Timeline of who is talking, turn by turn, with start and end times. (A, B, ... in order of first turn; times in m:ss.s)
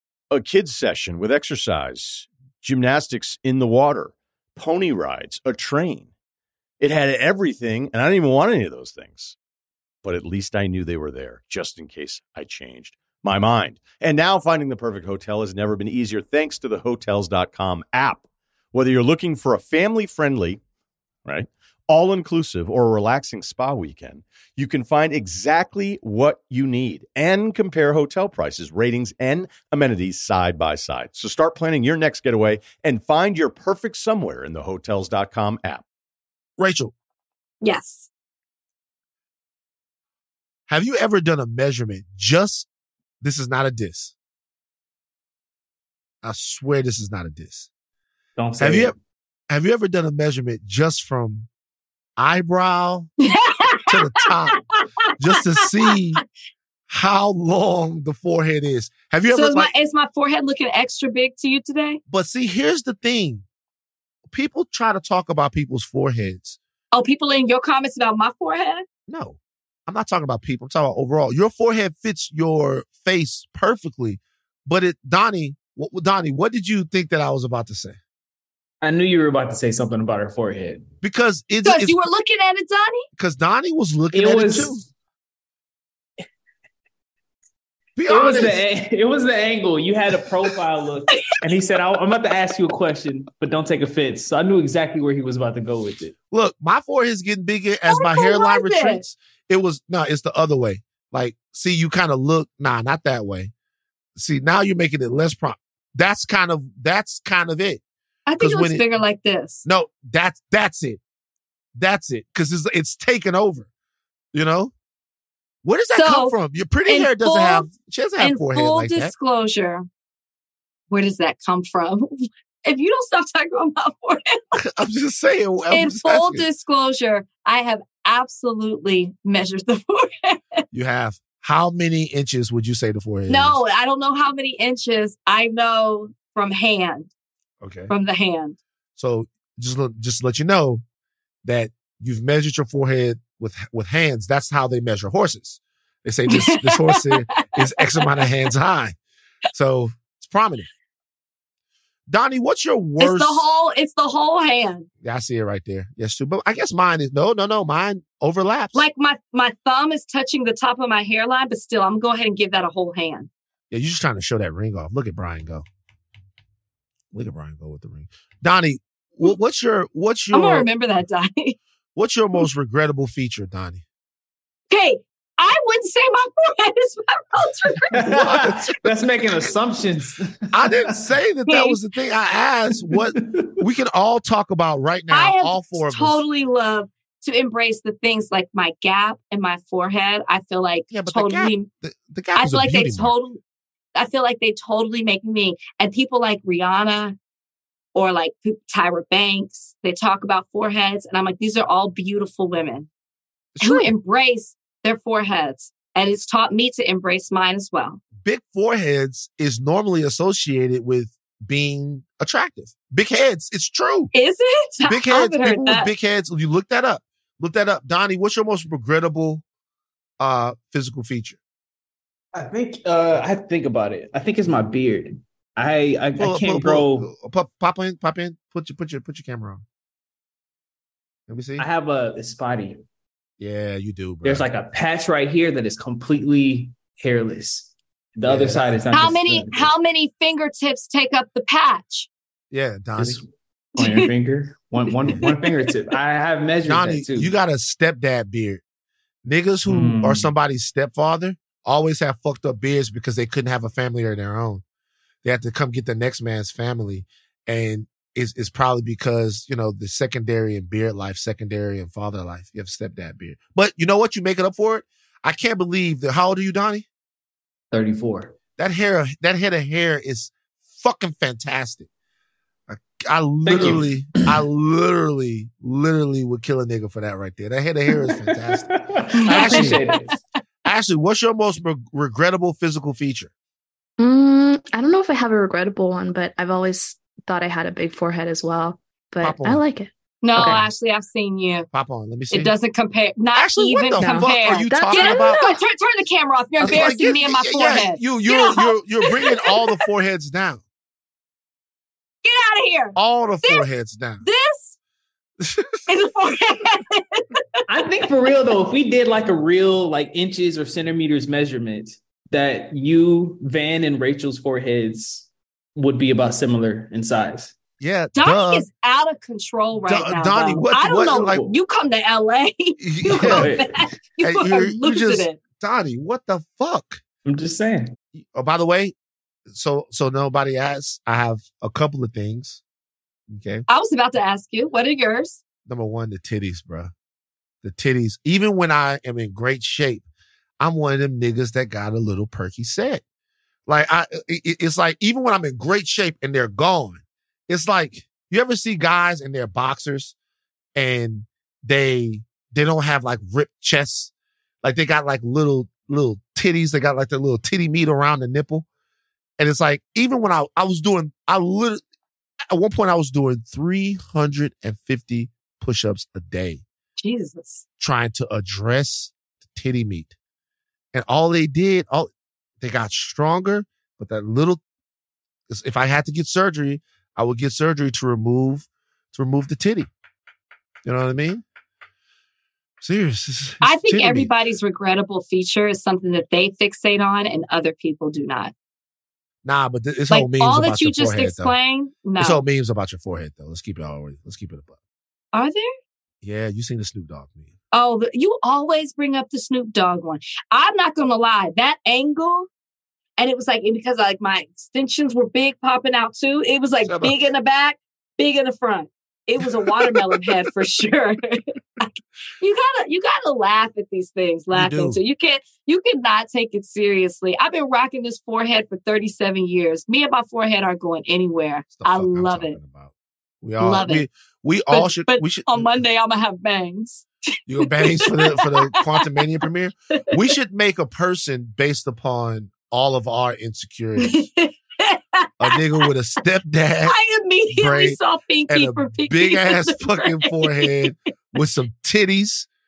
0:00.3-0:06.1 A
0:06.8-0:09.4 A
0:10.0-0:20.6 A
0:21.2-0:35.8 A
0:36.6-0:36.9 B
0:37.6-0:38.1 C
0:40.7-0:42.7 B
0:43.2-0:44.1 B
0:46.2-0:47.7 B
0:48.4-0:48.9 D
0:48.6-0:48.9 B
0:49.5-0:51.5 B
0:52.2-0:53.1 B
0:53.2-0:54.2 C
0:53.9-0:54.6 B
0:55.2-0:56.2 B
0:56.9-0:59.7 B
0:59.3-1:02.0 C
1:02.1-1:03.4 B
1:04.3-1:06.6 B
1:06.9-1:08.8 C
1:09.1-1:18.0 B
1:18.8-1:20.9 D
1:21.0-1:22.0 B
1:21.6-1:23.1 C
1:23.2-1:24.8 B
1:24.1-1:24.9 D
1:28.0-1:28.6 B
1:28.1-1:36.1 D
1:36.3-1:43.5 B
1:37.9-1:39.0 C
1:44.2-1:47.8 B
1:48.3-1:49.6 C
1:48.4-1:48.8 B
1:49.6-1:51.0 B
1:51.8-1:53.7 B
1:54.3-1:54.7 B
1:55.6-1:59.1 B
1:56.0-1:57.7 C
1:58.2-1:59.9 C
2:00.9-2:02.1 C
2:02.6-2:04.6 C
2:04.6-2:06.5 B
2:05.7-2:10.6 C
2:10.7-2:13.6 B
2:13.3-2:17.1 C
2:17.6-2:17.9 B
2:17.9-2:18.6 C
2:19.0-2:20.8 B
2:21.4-2:29.0 B
2:26.3-2:28.3 C
2:29.5-2:30.7 B
2:32.1-2:33.5 B
2:33.0-2:34.9 C
2:35.0-2:38.9 B
2:38.7-2:43.3 C
2:43.7-2:45.7 B
2:47.1-2:50.7 B
2:50.3-2:51.6 C
2:52.0-2:53.8 B
2:54.7-2:58.6 C
2:58.0-3:01.0 D
2:58.1-2:58.7 B
3:00.5-3:06.2 B
3:01.5-3:01.8 C
3:02.9-3:03.5 D
3:05.1-3:11.7 C
3:10.9-3:13.2 B
3:12.4-3:13.4 C
3:14.0-3:17.2 C
3:17.9-3:22.9 C
3:23.6-3:23.9 B
3:23.6-3:28.0 C
3:28.2-3:34.1 B
3:34.1-3:35.9 C
3:34.9-3:39.4 B
3:40.2-3:41.4 B
3:42.4-3:47.1 D
3:46.2-3:49.6 B
3:51.3-3:51.6 B
3:51.6-3:52.8 D
3:53.4-3:54.5 B
3:54.2-3:59.7 D
3:58.2-3:58.6 B
3:58.9-4:02.1 C
4:02.5-4:03.2 B
4:03.0-4:07.3 D
4:05.2-4:05.5 C
4:06.6-4:08.6 B
4:09.2-4:14.6 B
4:09.7-4:10.3 D
4:15.2-4:26.9 B
4:27.7-4:28.3 D
4:28.6-4:31.9 B
4:32.7-4:39.9 B
4:33.5-4:34.4 D
4:38.1-4:40.2 D
4:39.1-4:40.2 C
4:40.6-4:43.3 B
4:44.0-4:50.7 E
4:49.2-4:49.6 B
4:50.2-4:51.7 C
4:51.7-4:52.6 B
4:52.3-4:59.6 C
4:53.4-4:55.5 B
4:54.0-4:55.6 E
4:56.6-5:00.6 B
5:02.2-5:03.7 C
5:03.0-5:04.2 B
5:04.2-5:04.8 C
5:05.4-5:05.8 B
5:05.9-5:07.6 C
5:07.7-5:17.6 D
5:17.8-5:18.7 B
5:18.2-5:25.4 C
5:19.9-5:21.4 B
5:22.8-5:23.5 B
5:23.1-5:23.9 D
5:24.2-5:27.0 B
5:27.3-5:28.0 D
5:28.1-5:28.9 B
5:29.5-5:32.6 B
5:33.3-5:33.7 B
5:33.7-5:35.4 C
5:35.7-5:36.9 B
5:37.6-5:40.0 B
5:40.6-5:43.0 B
5:43.7-5:50.2 B
5:50.8-5:54.1 B
5:54.6-5:58.7 B
5:59.4-6:01.8 B
6:02.5-6:06.6 B
6:07.0-6:07.6 C
6:07.8-6:10.1 B
6:10.9-6:14.6 B
6:15.5-6:19.9 B
6:20.8-6:21.4 B
6:22.8-6:24.3 B
6:23.6-6:28.5 C
6:29.4-6:31.5 B
6:30.1-6:32.4 C
6:32.2-6:34.8 B
6:35.3-6:35.7 C
6:36.2-6:37.5 B
6:37.7-6:42.5 C
6:43.2-7:02.6 C
6:46.8-6:47.1 B
6:54.5-6:55.0 B
7:01.8-7:05.7 B
7:03.6-7:04.1 C
7:04.7-7:07.1 C
7:07.5-7:14.3 B
7:07.7-7:09.1 C
7:14.0-7:15.9 C
7:15.4-7:17.0 B
7:16.9-7:20.9 C
7:17.5-7:22.5 B